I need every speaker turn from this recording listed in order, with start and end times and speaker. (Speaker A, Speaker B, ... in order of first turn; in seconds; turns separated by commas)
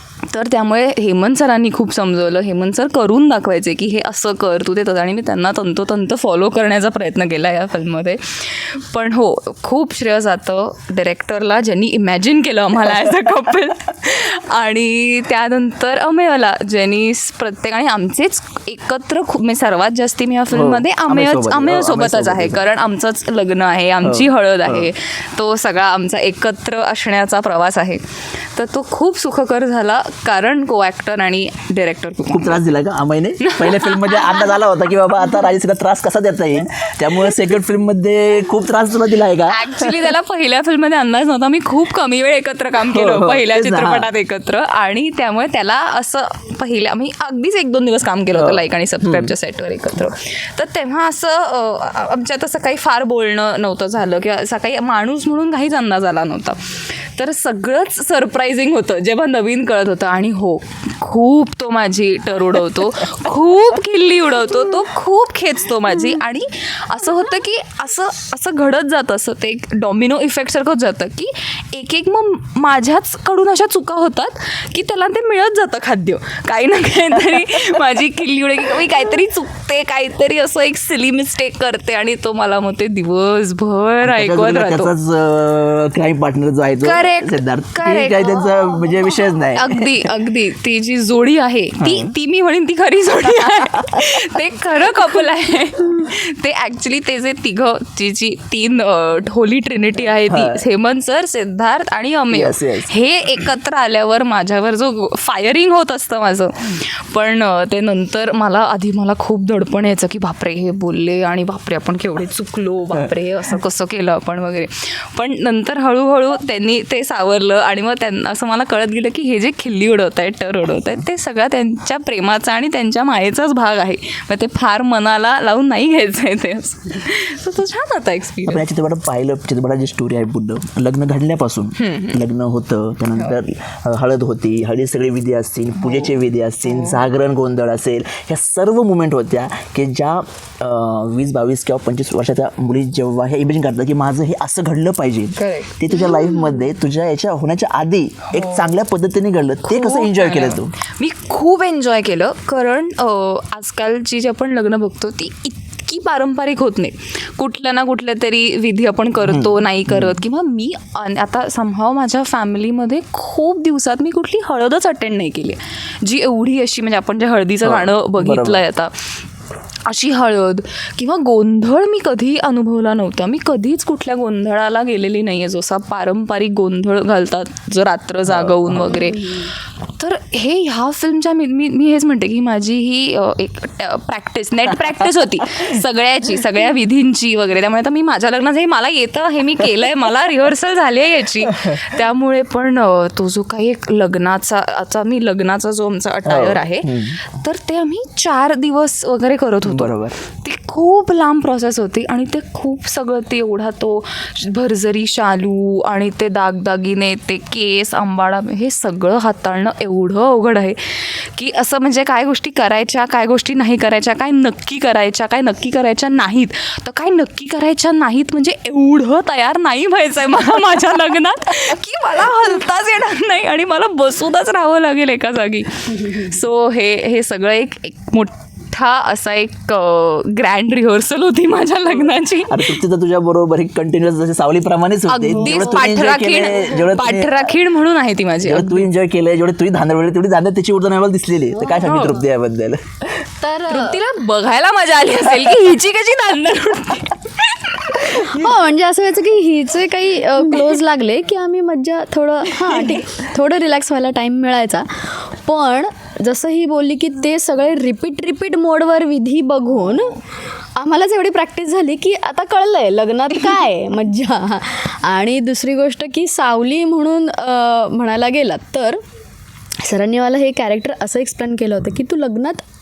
Speaker A: 0.3-32.6, Speaker B: 20.5-22.6, Speaker B: 24.0-24.9, Speaker B: 32.3-40.1, Speaker A: 33.4-34.5, Speaker A: 39.5-84.9, Speaker B: 42.8-44.1, Speaker B: 48.3-49.3, Speaker B: 84.0-90.1, Speaker A: 86.8-128.6, Speaker B: 91.8-92.1, Speaker B: 93.4-94.2, Speaker B: 100.3-100.6, Speaker B: 102.3-102.9, Speaker B: 128.4-150.7, Speaker A: 131.8-132.2, Speaker A: 135.8-136.1, Speaker A: 136.6-137.0, Speaker A: 145.4-146.3, Speaker A: 148.3-148.7, Speaker A: 149.7-168.9, Speaker B: 159.3-160.2, Speaker B: 167.6-168.6, Speaker A: 169.8-232.8, Speaker B: 178.3-179.0, Speaker B: 196.2-197.2, Speaker B: 199.7-200.2, Speaker B: 232.5-237.5, Speaker A: 235.1-238.9, Speaker C: 235.4-235.8, Speaker B: 238.4-243.2, Speaker C: 241.6-242.1, Speaker A: 241.8-242.2, Speaker C: 243.4-244.0, Speaker A: 243.7-248.4, Speaker C: 248.1-260.2, Speaker C: 260.8-269.0, Speaker C: 269.8-272.6